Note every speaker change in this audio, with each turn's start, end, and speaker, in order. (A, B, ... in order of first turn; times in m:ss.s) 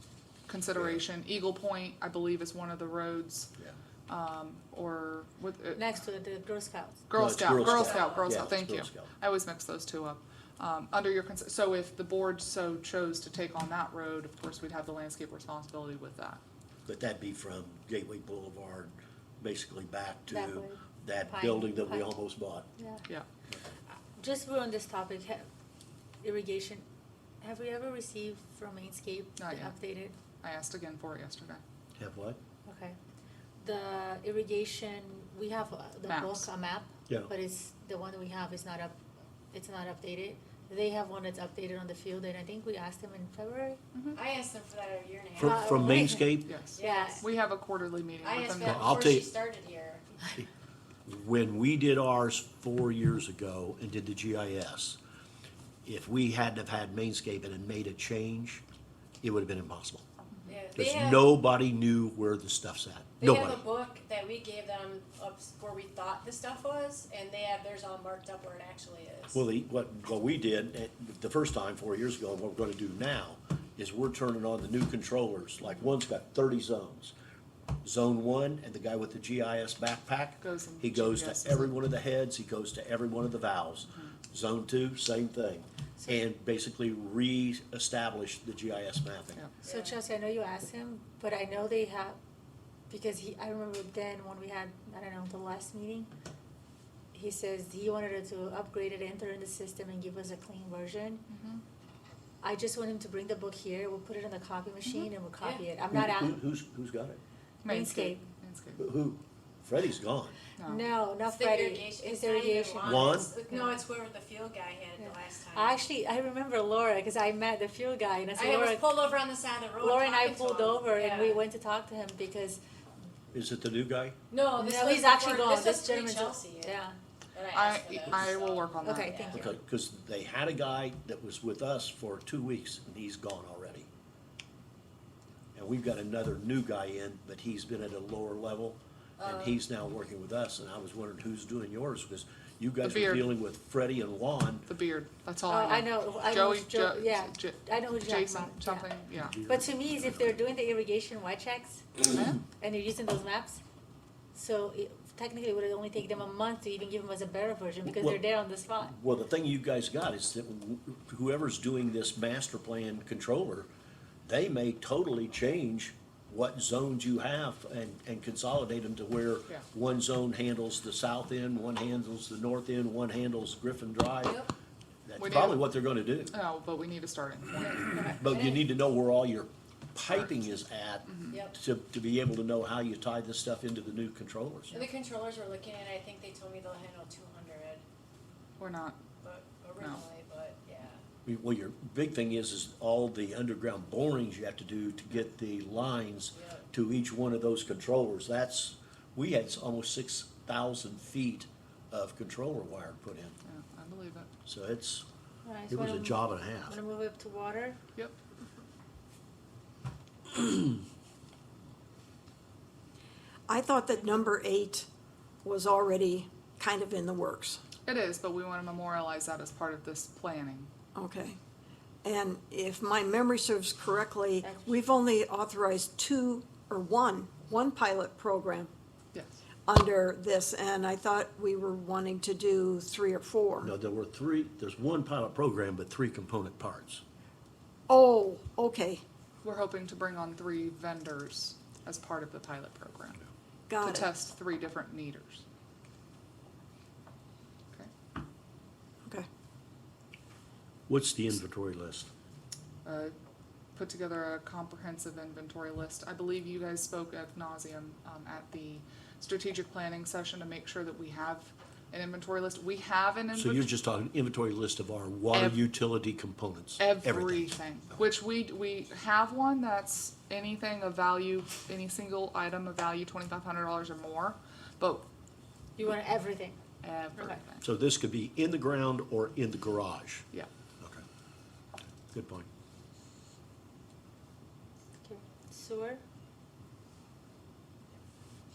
0:00.5-0:03.5 A
0:00.7-0:01.0 B
0:04.1-0:05.8 A
0:05.8-0:07.0 C
0:07.1-0:16.4 A
0:07.1-0:09.1 B
0:07.5-0:08.4 D
0:16.8-0:22.7 B
0:20.3-0:22.1 C
0:22.8-0:23.1 C
0:24.2-0:25.5 C
0:26.2-0:26.8 C
0:27.4-0:30.2 C
0:29.4-0:29.8 A
0:30.4-0:31.6 A
0:32.0-0:32.4 B
0:32.6-0:33.0 C
0:33.6-0:38.9 C
0:36.1-0:36.5 A
0:39.5-0:43.8 C
0:44.1-0:45.9 D
0:45.4-0:46.5 B
0:45.4-0:47.2 C
0:46.4-0:49.1 A
0:46.7-0:47.3 D
0:48.2-0:50.2 D
0:48.6-0:49.4 B
0:51.0-0:55.0 B
0:55.8-0:58.6 B
0:59.2-1:00.0 B
1:00.5-1:01.3 D
1:00.7-1:03.6 B
1:03.2-1:09.4 D
1:09.3-1:17.1 B
1:17.8-1:29.4 B
1:20.4-1:21.7 A
1:29.6-1:30.0 D
1:29.6-1:32.2 C
1:32.9-1:36.1 C
1:37.1-1:41.2 C
1:41.3-1:41.6 A
1:42.4-1:46.4 C
1:45.9-1:47.2 B
1:47.6-1:48.8 A
1:47.6-1:48.2 C
1:48.8-1:50.4 B
1:50.6-1:50.8 A
1:50.6-1:53.8 C
1:51.2-1:55.8 D
1:52.8-1:53.3 B
1:55.0-1:59.0 C
1:58.4-2:01.4 D
1:59.8-2:02.6 C
2:03.3-2:04.2 B
2:04.3-2:06.8 D
2:04.5-2:07.0 C
2:07.3-2:09.5 D
2:07.5-2:09.2 A
2:08.8-2:09.6 C
2:09.3-2:13.9 B
2:15.5-2:24.7 B
2:19.2-2:19.6 D
2:22.8-2:23.3 A
2:24.7-2:29.4 A
2:25.5-2:28.9 C
2:29.3-2:30.4 B
2:29.5-2:33.6 C
2:32.1-2:32.4 A
2:34.3-2:39.0 C
2:37.8-2:38.2 B
2:38.8-2:43.7 B
2:44.2-2:54.5 B
2:55.0-2:56.4 B
2:55.2-2:55.7 A
2:56.3-2:58.0 A
2:57.8-2:58.6 D
2:58.0-3:04.8 B
3:01.0-3:01.4 A
3:04.7-3:07.8 D
3:08.6-3:09.0 A
3:09.2-3:11.0 D
3:11.2-3:23.4 B
3:16.3-3:16.6 D
3:23.4-3:24.3 A
3:24.4-3:25.0 B
3:25.4-3:27.8 C
3:25.7-3:26.8 B
3:33.5-3:34.9 E
3:35.4-3:37.6 E
3:37.8-3:40.7 A
3:40.9-3:41.4 E
3:42.0-3:48.7 E
3:44.4-3:44.8 C
3:49.6-3:53.7 E
3:53.6-3:57.0 B
3:57.9-3:59.0 E
3:59.4-4:03.2 A
4:03.7-4:04.1 E
4:03.8-4:05.4 A
4:10.9-4:12.1 B
4:12.8-4:13.1 A
4:13.8-4:23.7 A
4:23.3-4:27.5 B
4:25.3-4:25.6 A
4:26.8-4:35.0 A
4:35.8-4:36.6 C
4:36.8-4:37.6 A
4:37.6-4:40.2 B
4:42.1-4:42.5 B
4:45.0-4:46.0 C